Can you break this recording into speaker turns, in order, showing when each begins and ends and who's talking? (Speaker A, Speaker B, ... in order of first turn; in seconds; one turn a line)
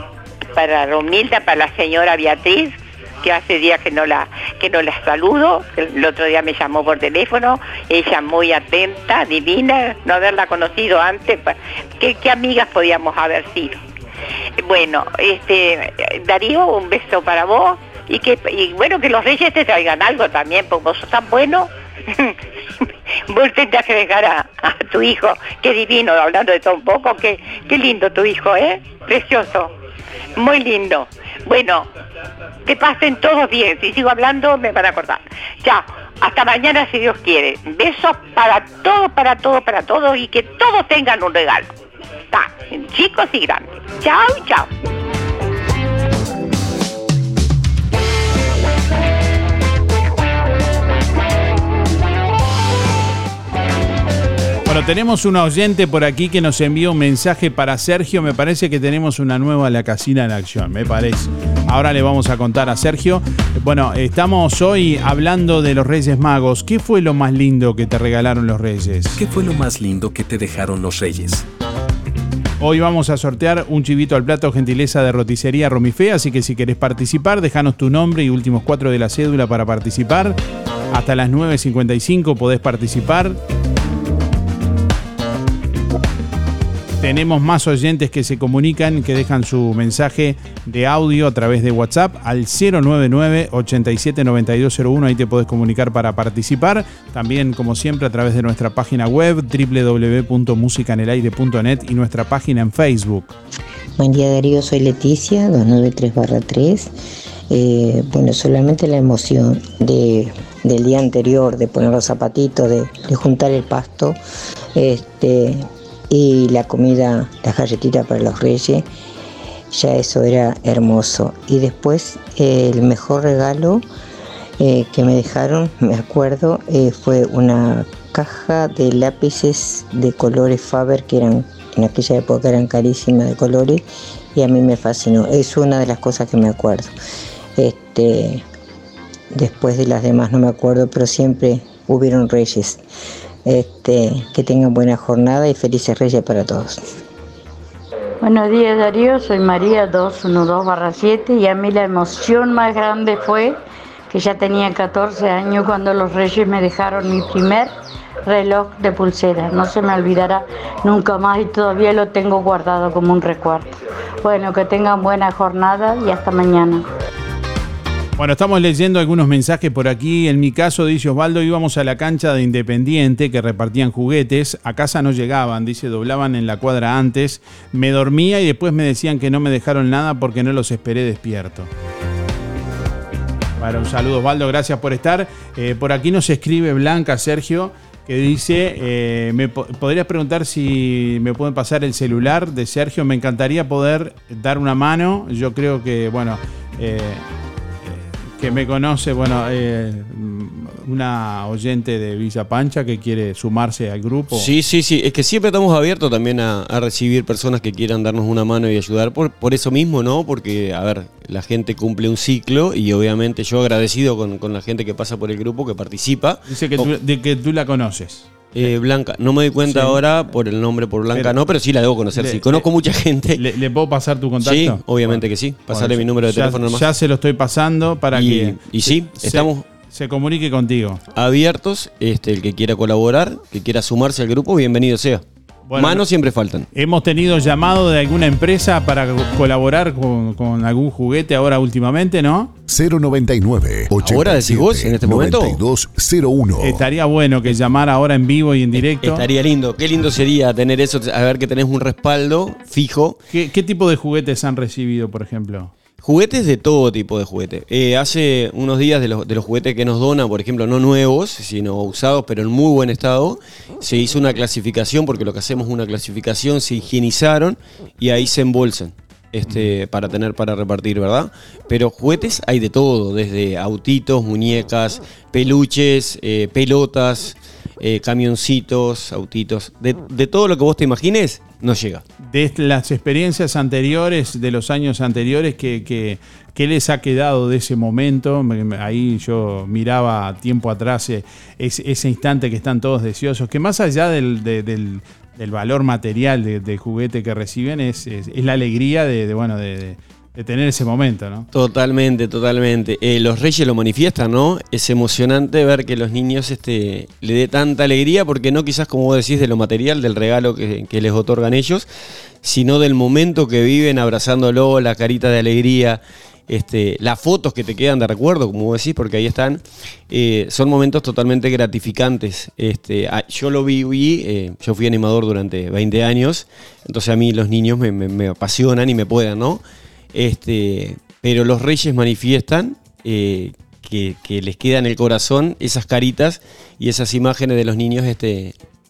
Speaker A: 0.6-13.8
Speaker A: 14.6-22.4
Speaker A: 23.3-29.7
Speaker A: 30.4-31.9
Speaker A: 32.7-41.7
Speaker A: 42.3-44.7
Speaker B: 54.7-69.2
Speaker C: 69.2-71.5
Speaker B: 72.6-80.4
Speaker B: 80.9-83.4
Speaker B: 87.0-103.3
Speaker D: 104.0-106.9
Speaker D: 107.5-114.2
Speaker D: 114.8-118.9
Speaker D: 119.7-123.8
Speaker D: 124.6-136.9
Speaker D: 137.6-138.4
Speaker D: 139.3-142.8
Speaker D: 143.5-146.8
Speaker E: 148.2-153.6
Speaker E: 154.1-157.7
Speaker E: 158.2-166.9
Speaker B: 168.2-181.7
Speaker B: 183.6-197.2
Speaker B: 197.9-204.5
Speaker F: 204.3-216.9
Speaker B: 216.5-218.7
Speaker F: 218.5-223.4
Speaker B: 219.7-220.0
Speaker B: 222.2-222.7
Speaker B: 223.4-231.0
Speaker F: 224.4-226.9
Speaker F: 228.1-229.6
Speaker F: 231.2-235.2
Speaker B: 235.7-236.0
Speaker F: 235.8-236.7
Speaker B: 236.7-242.5
Speaker G: 242.7-246.8
Speaker F: 244.0-245.6
Speaker B: 246.6-249.2
Speaker F: 248.8-253.2
Speaker B: 253.3-255.7
Speaker F: 256.0-282.0
Speaker B: 282.2-301.5
Speaker F: 301.5-311.9
Speaker F: 312.4-329.6
Speaker F: 330.1-338.6